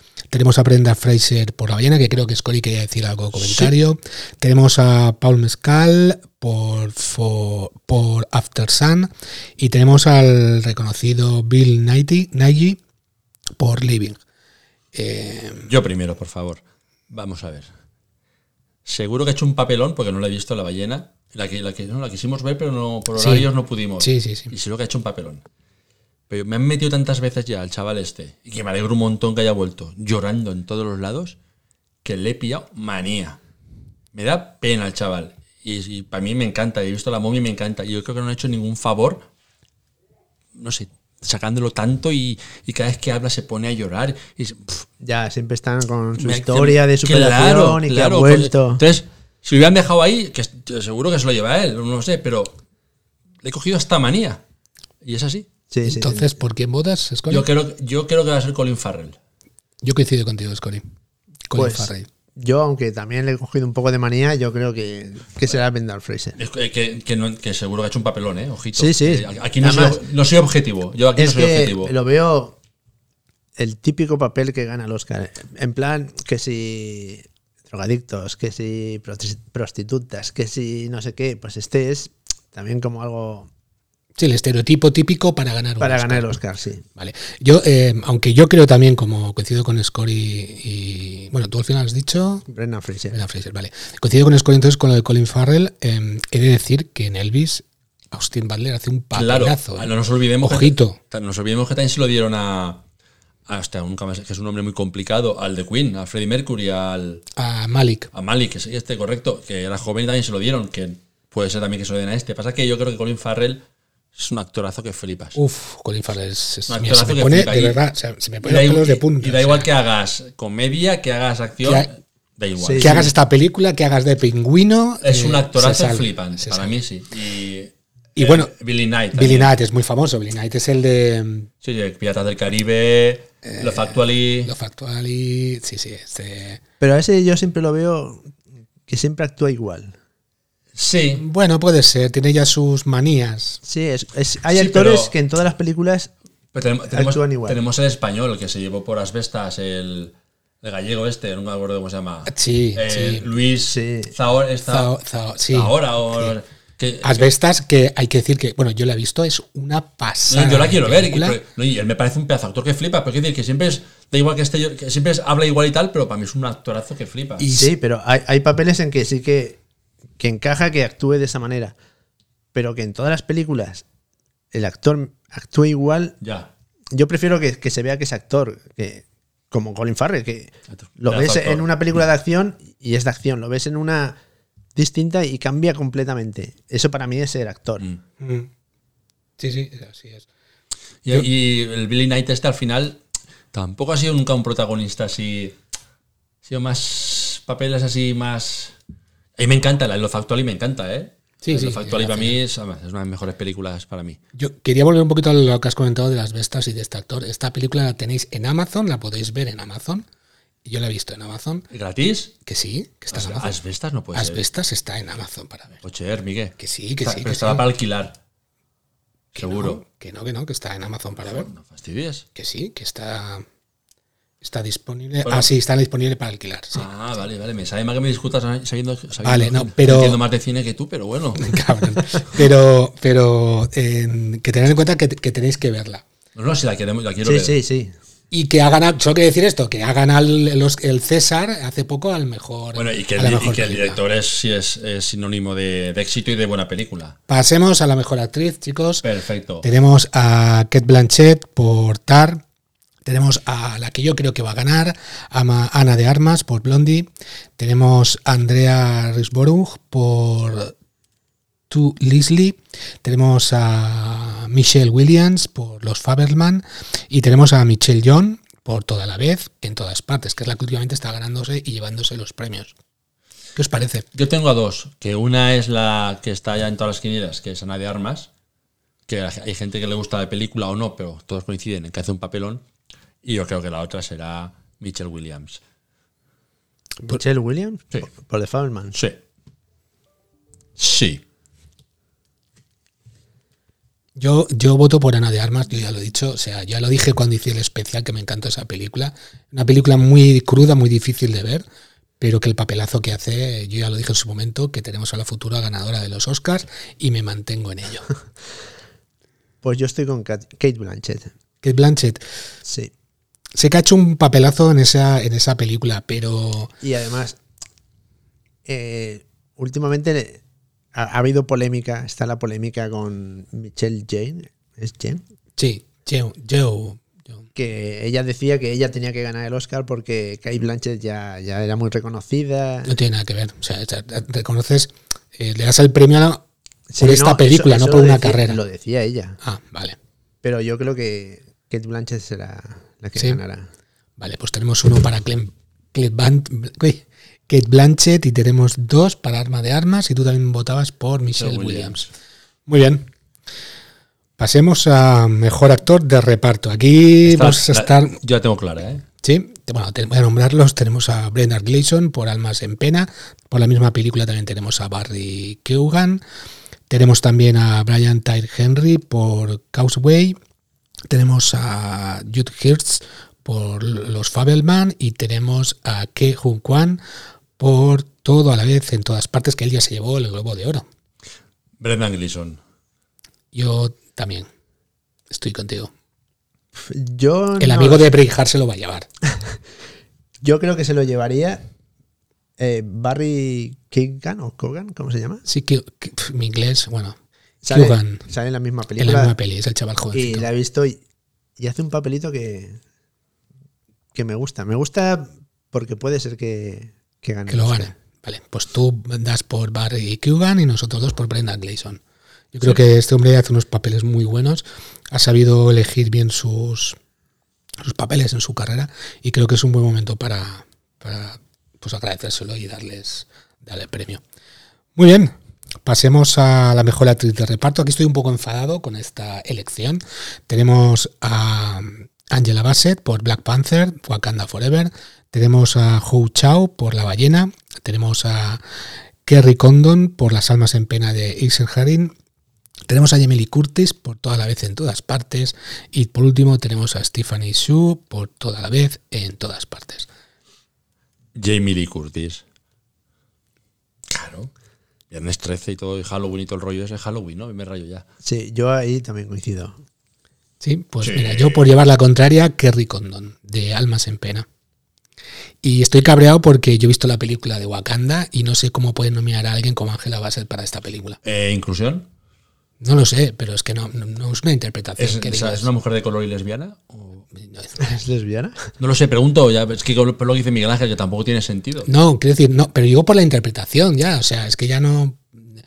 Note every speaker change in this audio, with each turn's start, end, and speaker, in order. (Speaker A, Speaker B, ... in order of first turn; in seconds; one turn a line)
Speaker A: 0.3-12.8
Speaker A: 13.6-14.2
Speaker A: 14.9-15.7
Speaker B: 15.7-17.7
Speaker B: 18.9-25.4
Speaker A: 23.1-23.5
Speaker A: 24.0-24.5
Speaker B: 26.3-31.4
Speaker B: 32.0-33.4
Speaker B: 34.1-39.2
Speaker B: 40.5-44.9
Speaker C: 45.0-48.8
Speaker B: 46.2-52.5
Speaker B: 53.4-54.4
Speaker B: 55.0-55.5
Speaker C: 55.7-56.3
Speaker A: 55.8-57.5
Speaker B: 57.3-59.2
Speaker A: 59.8-60.8
Speaker A: 61.5-62.1
Speaker C: 61.5-66.4
Speaker B: 66.4-71.9
Speaker C: 68.8-70.0
Speaker C: 71.2-72.6
Speaker C: 73.6-83.5
Speaker A: 84.2-86.4
Speaker C: 85.8-86.8
Speaker A: 87.0-92.4
Speaker C: 92.5-93.2
Speaker A: 93.1-101.0
Speaker B: 99.1-102.8
Speaker B: 103.5-107.2
Speaker A: 107.4-108.1
Speaker B: 108.1-113.6
Speaker B: 114.1-115.4
Speaker A: 115.4-119.7
Speaker B: 116.7-117.8
Speaker B: 118.4-123.1
Speaker A: 121.6-121.9
Speaker C: 122.6-123.0
Speaker A: 122.8-126.8
Speaker B: 125.0-129.5
Speaker A: 128.2-128.5
Speaker A: 129.1-131.5
Speaker B: 131.6-134.5
Speaker A: 133.4-136.6
Speaker C: 136.8-138.3
Speaker C: 138.9-139.9
Speaker B: 140.8-141.2
Speaker A: 141.2-143.6
Speaker C: 143.6-146.1
Speaker B: 144.5-145.1
Speaker B: 146.5-154.9
Speaker C: 146.9-147.6
Speaker A: 152.3-153.2
Speaker C: 153.7-154.1
Speaker A: 154.7-156.3
Speaker B: 155.5-157.2
Speaker A: 157.0-161.4
Speaker B: 160.3-167.5
Speaker A: 167.4-167.7
Speaker C: 167.5-169.6
Speaker C: 170.2-171.8
Speaker C: 172.5-173.8
Speaker C: 174.5-176.2
Speaker B: 176.2-176.5
Speaker C: 176.9-184.2
Speaker B: 180.8-181.7
Speaker C: 184.8-187.9
Speaker A: 188.2-188.5
Speaker A: 189.4-190.3
Speaker B: 191.0-193.0
Speaker B: 193.5-195.6
Speaker B: 196.4-198.7
Speaker B: 199.4-204.2
Speaker A: 201.4-202.4
Speaker A: 204.4-210.1
Speaker A: 210.6-211.6
Speaker B: 211.7-212.3
Speaker A: 212.4-213.5
Speaker B: 213.1-214.4
Speaker A: 214.1-215.8
Speaker B: 215.8-218.1
Speaker A: 216.6-217.6
Speaker B: 219.3-219.8
Speaker A: 219.4-221.5
Speaker B: 221.2-222.2
Speaker A: 222.3-223.4
Speaker A: 224.4-226.8
Speaker B: 225.2-225.5
Speaker B: 226.7-231.6
Speaker A: 229.2-230.2
Speaker A: 231.4-236.0
Speaker B: 236.3-237.6
Speaker C: 237.2-237.9
Speaker A: 238.3-244.0
Speaker B: 242.8-247.2
Speaker A: 247.3-249.0
Speaker B: 249.0-249.6
Speaker A: 249.6-252.4
Speaker A: 253.0-260.7
Speaker A: 261.7-272.8
Speaker A: 273.5-274.1
Speaker B: 274.1-278.3
Speaker B: 279.1-282.6
Speaker B: 283.2-285.6
Speaker C: 287.0-288.9
Speaker B: 290.8-291.2
Speaker A: 294.1-301.6
Speaker A: 302.2-308.1
Speaker C: 309.6-311.3
Speaker A: 311.6-312.2
Speaker C: 312.6-312.9
Speaker A: 313.5-316.7
Speaker C: 316.8-317.4
Speaker C: 318.6-320.4
Speaker C: 320.9-325.2
Speaker A: 325.6-327.4
Speaker C: 327.5-332.9
Speaker A: 332.9-336.4
Speaker C: 336.9-339.4
Speaker A: 337.0-338.6
Speaker A: 339.4-340.0
Speaker C: 340.4-343.7
Speaker A: 344.2-352.0
Speaker B: 351.4-352.1
Speaker A: 352.7-353.1
Speaker A: 354.4-358.2
Speaker B: 357.2-359.0
Speaker A: 359.2-366.2
Speaker A: 366.9-370.4
Speaker A: 371.1-377.0
Speaker A: 377.6-380.9
Speaker B: 381.8-382.6
Speaker A: 383.5-384.5
Speaker A: 385.3-385.9
Speaker C: 386.8-388.1
Speaker A: 387.6-389.1
Speaker C: 390.4-391.6
Speaker C: 392.6-395.4
Speaker A: 395.4-397.2
Speaker C: 397.6-399.4
Speaker A: 397.7-398.3
Speaker A: 399.0-400.4
Speaker C: 400.1-401.0
Speaker C: 401.6-402.8
Speaker C: 404.1-407.9
Speaker A: 407.5-412.0
Speaker A: 412.5-417.0
Speaker A: 417.8-424.2
Speaker A: 424.9-425.3
Speaker A: 425.9-438.6
Speaker A: 439.2-442.1
Speaker A: 442.9-450.1
Speaker B: 451.4-452.4
Speaker B: 454.1-454.5
Speaker B: 455.1-458.1
Speaker C: 458.2-459.8
Speaker A: 460.6-464.4
Speaker B: 461.0-461.6
Speaker A: 465.6-471.2
Speaker B: 471.2-472.1
Speaker A: 472.8-475.7
Speaker B: 475.0-477.2
Speaker A: 477.3-477.9
Speaker C: 477.8-478.7
Speaker B: 478.8-481.9
Speaker A: 481.9-485.4